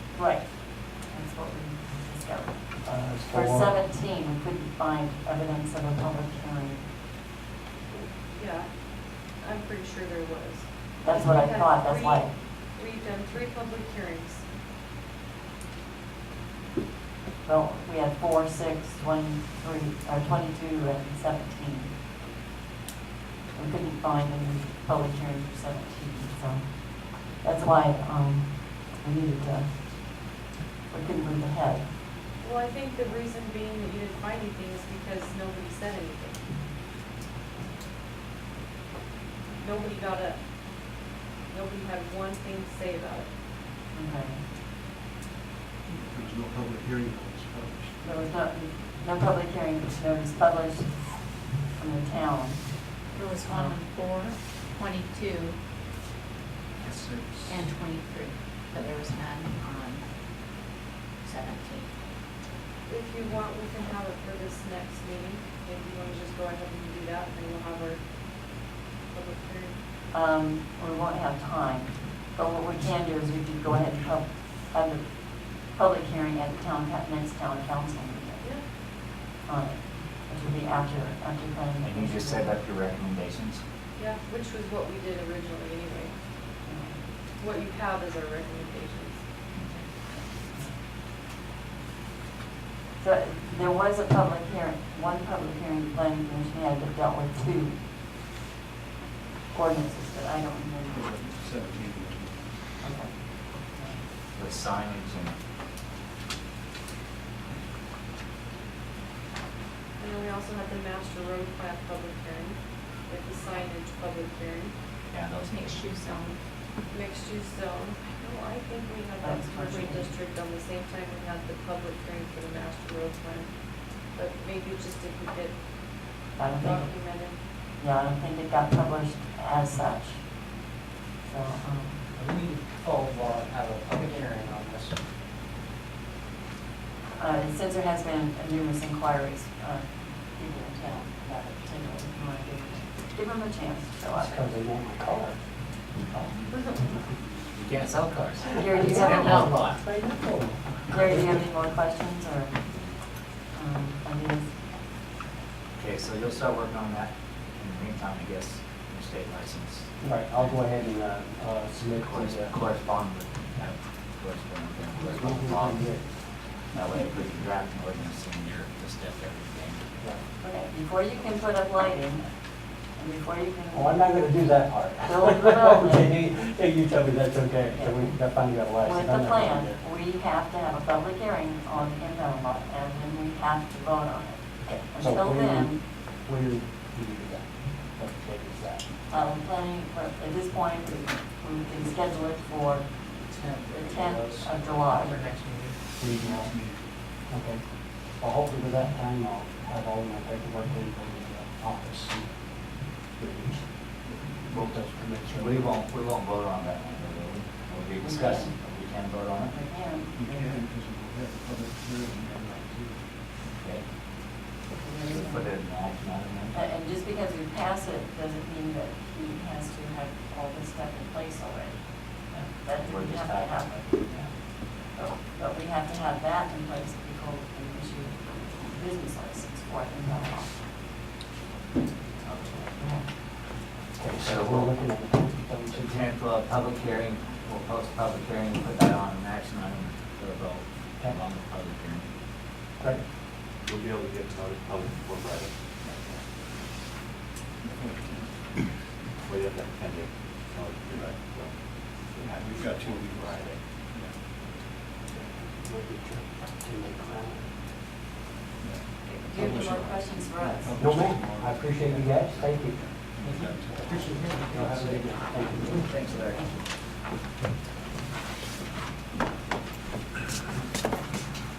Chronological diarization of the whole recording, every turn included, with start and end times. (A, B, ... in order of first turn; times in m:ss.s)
0:00.1-0:00.5 A
0:01.0-0:02.7 A
0:02.8-0:03.8 B
0:03.3-0:06.8 A
0:08.2-0:08.7 C
0:09.4-0:14.4 C
0:11.0-0:12.3 A
0:17.4-0:21.9 A
0:23.5-0:29.8 A
0:30.9-0:31.9 A
0:32.4-0:36.4 C
0:39.6-0:40.4 C
0:41.5-0:43.3 C
0:43.9-0:44.4 A
0:45.9-0:48.0 D
0:48.0-0:53.8 A
0:53.1-0:55.6 E
0:57.0-0:57.6 F
0:57.4-1:00.0 E
1:01.2-1:01.9 E
1:02.8-1:08.0 C
1:09.1-1:09.8 C
1:10.1-1:15.1 A
1:15.6-1:18.5 A
1:19.4-1:22.6 A
1:21.8-1:23.6 G
1:24.0-1:26.1 C
1:26.6-1:27.0 A
1:27.4-1:29.2 C
1:33.0-1:37.8 A
1:39.5-1:41.1 A
1:40.9-1:42.5 D
1:42.8-1:44.0 A
1:44.3-1:45.4 G
1:50.0-1:54.7 C
1:55.1-1:55.8 G
1:55.5-1:56.4 E
1:56.9-2:03.5 C
1:59.2-2:00.1 A
1:59.7-2:00.1 E
2:04.1-2:05.6 C
2:06.4-2:06.9 A
2:06.4-2:07.4 C
2:07.8-2:10.2 A
2:11.2-2:12.0 A
2:12.2-2:14.1 B
2:14.2-2:14.6 F
2:17.2-2:24.5 A
2:24.1-2:25.4 B
2:26.5-2:27.0 C
2:27.5-2:29.8 G
2:28.6-2:29.5 A
2:28.7-2:31.4 B
2:30.9-2:32.5 A
2:33.5-2:34.5 A
2:35.8-2:40.5 G
2:40.0-2:42.6 B
2:42.0-2:45.8 G
2:44.9-2:46.2 B
2:46.7-2:50.0 G
2:50.4-2:52.3 A
2:53.0-2:54.0 A
2:53.7-2:59.8 B
2:55.0-2:56.1 A
2:57.7-2:58.0 A
2:58.8-3:05.8 A
3:04.6-3:08.8 B
3:09.1-3:12.9 A
3:13.3-3:15.8 F
3:13.7-3:15.2 A
3:16.0-3:16.5 B
3:16.2-3:16.8 D
3:17.3-3:17.6 B
3:18.2-3:22.3 B
3:23.2-3:23.7 B
3:24.3-3:25.7 B
3:24.5-3:29.6 G
3:28.0-3:28.6 A
3:29.4-3:30.6 A
3:30.1-3:33.1 D
3:33.4-3:33.8 G
3:34.7-3:35.5 A
3:35.0-3:36.6 G
3:36.5-3:44.2 A
3:42.8-3:44.3 G
3:44.9-3:50.5 A
3:52.2-3:53.0 A
3:54.0-3:56.0 B
3:54.1-3:54.7 G
3:55.7-4:02.1 G
4:03.6-4:05.5 F
4:07.6-4:08.4 D
4:09.2-4:11.5 F
4:12.2-4:14.1 D
4:15.2-4:17.5 B
4:18.6-4:25.4 D
4:19.0-4:20.8 A
4:20.8-4:22.8 B
4:23.2-4:24.6 F
4:24.4-4:25.8 B
4:25.8-4:26.5 G